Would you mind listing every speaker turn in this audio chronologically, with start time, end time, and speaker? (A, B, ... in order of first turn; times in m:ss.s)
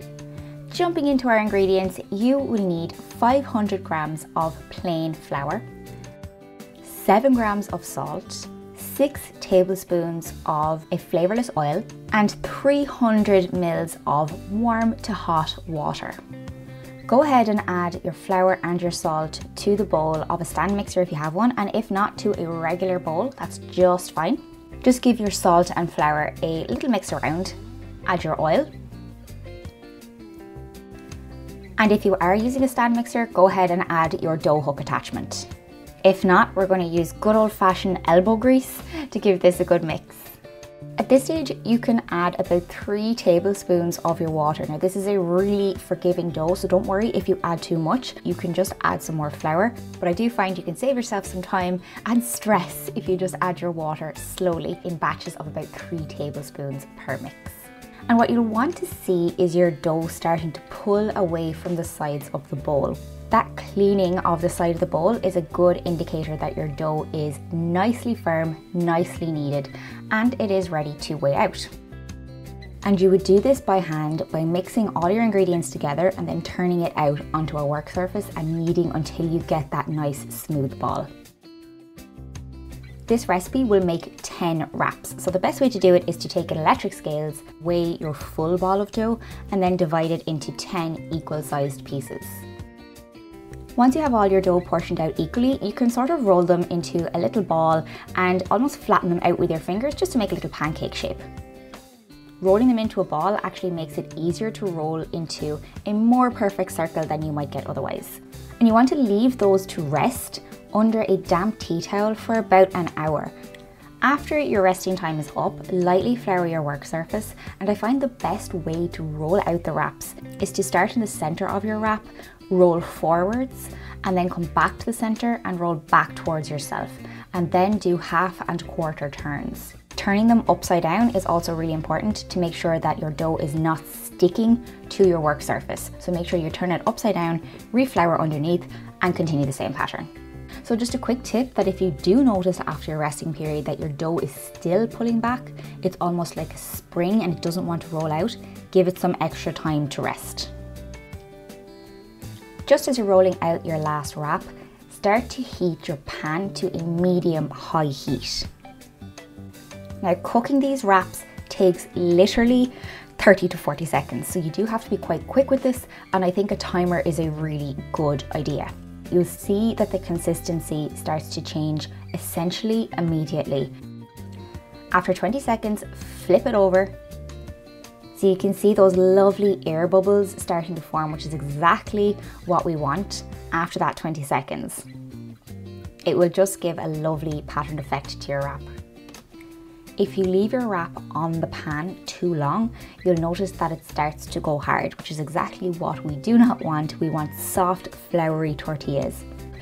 0:00.7-0:05.6 A
0:06.8-0:16.2 A
0:17.1-0:28.7 A
0:31.8-0:35.5 A
0:36.0-0:40.4 A
0:41.0-1:11.7 A
1:12.8-1:21.1 A
1:23.1-1:32.4 A
1:33.8-1:41.2 A
1:42.4-1:53.3 A
1:54.0-2:20.1 A
2:20.6-2:30.5 A
2:32.7-2:38.5 A
2:40.0-2:53.7 A
2:54.9-2:56.9 A
2:58.1-3:04.9 A
3:06.0-3:08.7 A
3:10.0-3:19.3 A